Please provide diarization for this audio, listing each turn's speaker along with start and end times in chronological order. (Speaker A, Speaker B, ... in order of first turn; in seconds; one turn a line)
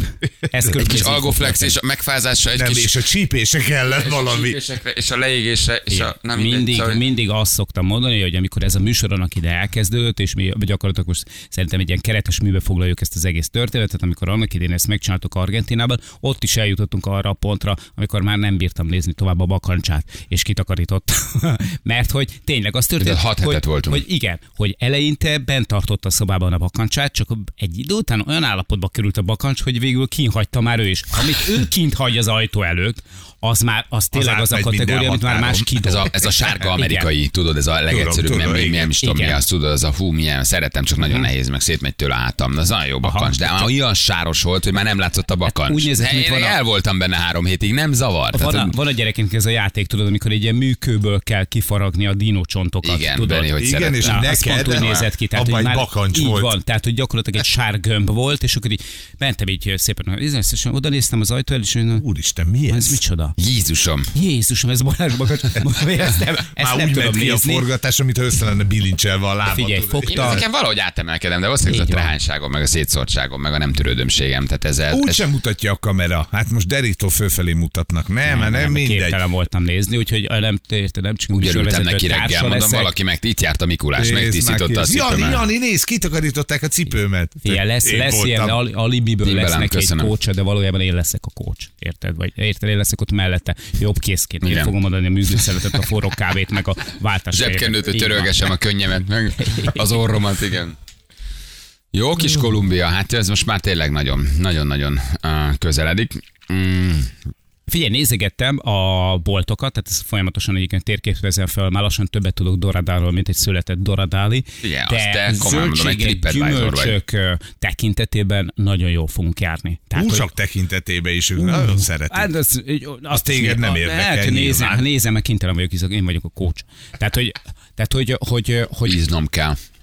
Speaker A: 0.5-1.7
Speaker B: 0.7-3.0
Speaker C: 2.6-4.6
Speaker B: 3.9-7.0
Speaker A: 5.9-37.1
Speaker B: 23.0-24.1
Speaker C: 34.1-35.8
Speaker B: 35.8-48.7
Speaker C: 37.9-38.9
Speaker A: 39.0-39.4
Speaker A: 41.0-41.3
Speaker A: 43.0-43.7
Speaker A: 45.5-46.6
Speaker A: 48.3-62.0
Speaker B: 52.8-55.1
Speaker C: 53.6-56.6
Speaker C: 62.0-63.0
Speaker A: 62.7-63.3
Speaker B: 63.4-64.1
Speaker A: 64.1-67.7
Speaker C: 66.5-70.4
Speaker A: 69.5-70.4
Speaker B: 70.1-75.2
Speaker A: 71.7-72.1
Speaker C: 74.9-79.2
Speaker A: 78.3-82.9
Speaker B: 81.3-85.4
Speaker C: 84.0-88.6
Speaker A: 87.4-98.5
Speaker B: 89.2-90.1
Speaker B: 94.4-94.7
Speaker B: 97.3-100.8
Speaker A: 99.4-99.8
Speaker B: 101.9-107.1
Speaker A: 107.7-120.3
Speaker B: 114.6-117.0
Speaker C: 120.0-122.3
Speaker A: 121.4-129.0
Speaker C: 123.1-124.9
Speaker B: 128.9-129.6